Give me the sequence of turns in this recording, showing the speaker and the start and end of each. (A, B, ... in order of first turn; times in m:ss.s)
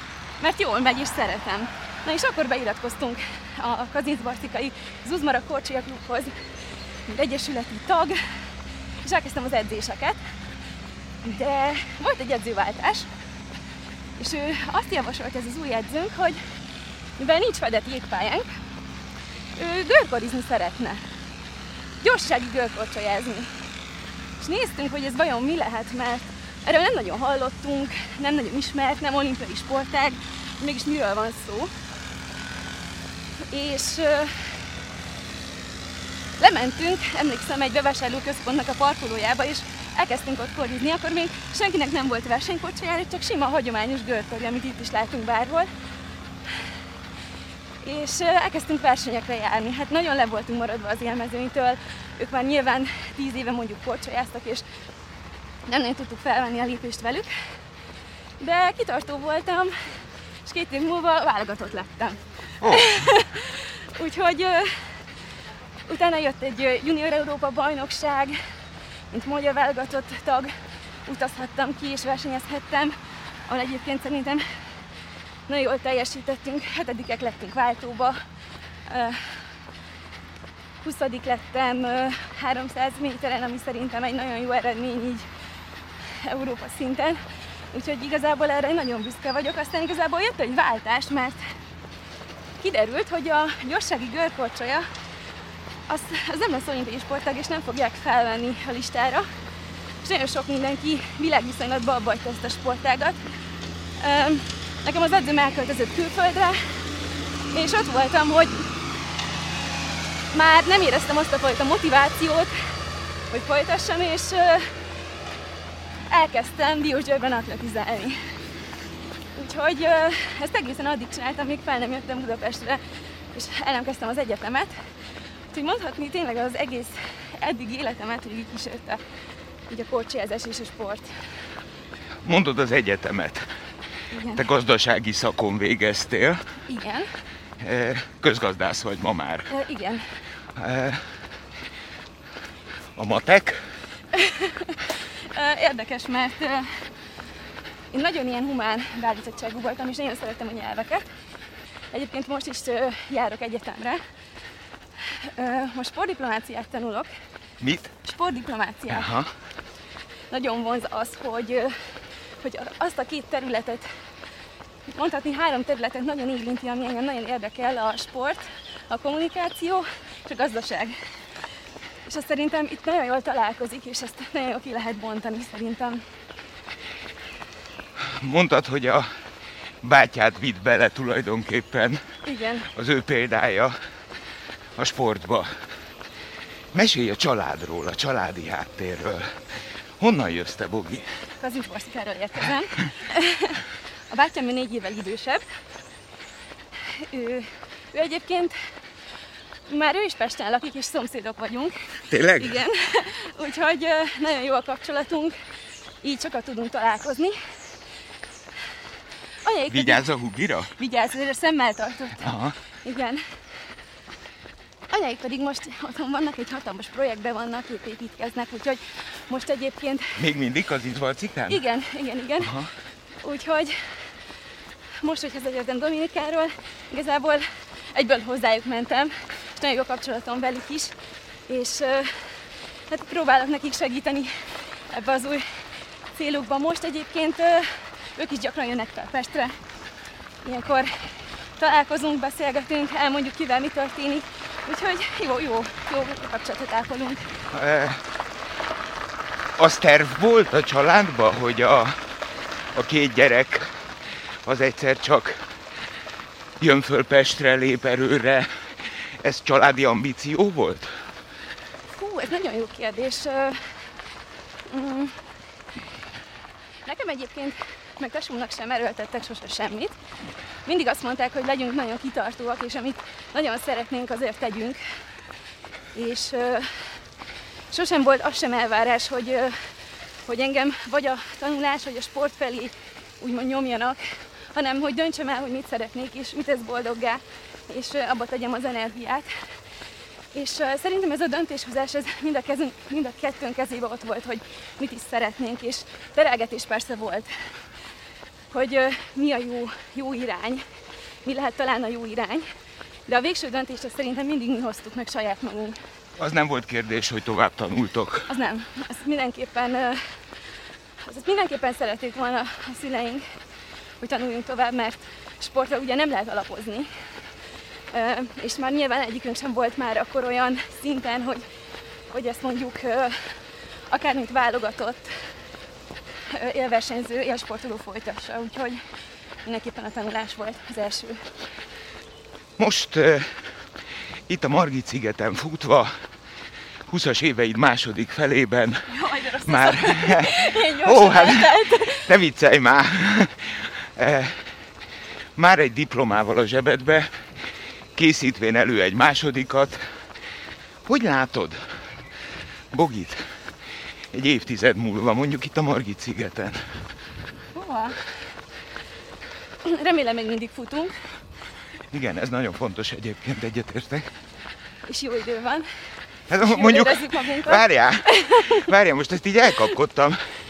0:00.4-0:06.4 A
0:07.1-0:08.2 A
0:09.0-0:10.2 A
0:11.2-0:13.1 A
0:14.2-0:16.4 A
0:17.2-0:18.5 A
0:19.6-0:21.0 A
0:22.0-0:23.5 A
0:24.4-0:31.7 A
0:33.5-0:34.5 A
0:36.4-0:45.7 A
0:47.8-0:54.6 A
0:55.7-0:57.3 A
0:58.4-0:59.7 A
1:00.4-1:04.7 A
1:02.6-1:02.9 B
1:05.9-1:08.4 A
1:09.1-1:10.5 A
1:11.0-1:12.9 A
1:13.5-1:14.4 A
1:15.5-1:18.2 A
1:18.9-1:19.4 A
1:20.8-1:25.2 A
1:26.2-1:27.2 A
1:27.7-1:31.4 A
1:32.6-1:34.8 A
1:35.9-1:39.2 A
1:40.0-1:43.2 A
1:44.0-1:46.6 A
1:47.5-1:48.7 A
1:50.3-1:52.6 A
1:53.3-1:54.7 A
1:56.1-1:58.2 A
1:59.3-2:02.8 A
2:03.3-2:04.7 A
2:05.5-2:09.0 A
2:09.7-2:11.1 A
2:12.2-2:13.4 B
2:14.1-2:14.4 A
2:14.4-2:16.4 B
2:16.7-2:17.1 A
2:17.6-2:19.5 B
2:19.5-2:20.0 A
2:20.6-2:21.0 B
2:23.0-2:23.6 B
2:24.1-2:26.7 A
2:27.9-2:31.1 A
2:31.9-2:34.0 A
2:35.1-2:37.1 A
2:37.6-2:37.9 B
2:38.0-2:39.1 A
2:38.9-2:39.3 B
2:40.3-2:41.7 A
2:42.4-2:43.9 A
2:44.9-2:50.9 A
2:52.0-2:56.0 A
2:58.2-2:59.1 B
2:59.8-3:02.0 B
3:02.2-3:02.7 A
3:02.7-3:03.7 B
3:04.8-3:05.5 B
3:06.7-3:09.3 B
3:10.0-3:11.0 B
3:11.4-3:15.4 A
3:16.9-3:18.6 A
3:19.7-3:25.4 A
3:22.1-3:22.6 B
3:26.0-3:27.4 A
3:29.4-3:30.0 A
3:29.7-3:30.7 B
3:30.7-3:32.3 A
3:32.2-3:32.5 B
3:32.8-3:33.2 A
3:34.9-3:40.1 A
3:40.2-3:41.6 B
3:41.5-3:42.5 A
3:42.4-3:42.7 B
3:43.2-3:43.8 A
3:45.0-3:50.9 A
3:51.5-3:55.4 A
3:56.1-3:59.6 A
4:00.4-4:00.9 A
4:01.6-4:07.2 A
4:07.5-4:08.0 B
4:09.6-4:11.9 B
4:12.7-4:13.7 B
4:14.4-4:15.4 B
4:16.6-4:18.5 B
4:19.2-4:21.0 B
4:21.9-4:23.7 A
4:24.7-4:25.2 A
4:26.8-4:30.0 A
4:30.6-4:34.8 A
4:35.9-4:36.9 A
4:37.7-4:39.6 A
4:40.2-4:44.0 A
4:44.5-4:49.3 A
4:50.3-4:57.3 A
4:58.5-5:00.6 A
5:01.2-5:02.4 A
5:03.1-5:05.8 A
5:06.2-5:08.3 B
5:08.3-5:10.0 A
5:11.0-5:13.2 A
5:14.0-5:16.9 A
5:17.9-5:21.4 A
5:22.1-5:23.4 A
5:23.9-5:25.1 A
5:26.3-5:28.8 A
5:29.4-5:31.3 A
5:32.6-5:33.3 B
5:34.3-5:35.9 B
5:36.9-5:38.9 B
5:38.9-5:42.1 A
5:39.4-5:44.4 B
5:45.4-5:47.1 B
5:48.0-5:49.8 B
5:50.9-5:51.6 B
5:52.7-5:53.2 B
5:54.1-5:56.6 B
5:57.5-5:58.0 A
5:59.6-6:00.9 A
6:01.9-6:04.1 B
6:04.8-6:05.7 A
6:06.3-6:10.2 B
6:06.4-6:08.7 A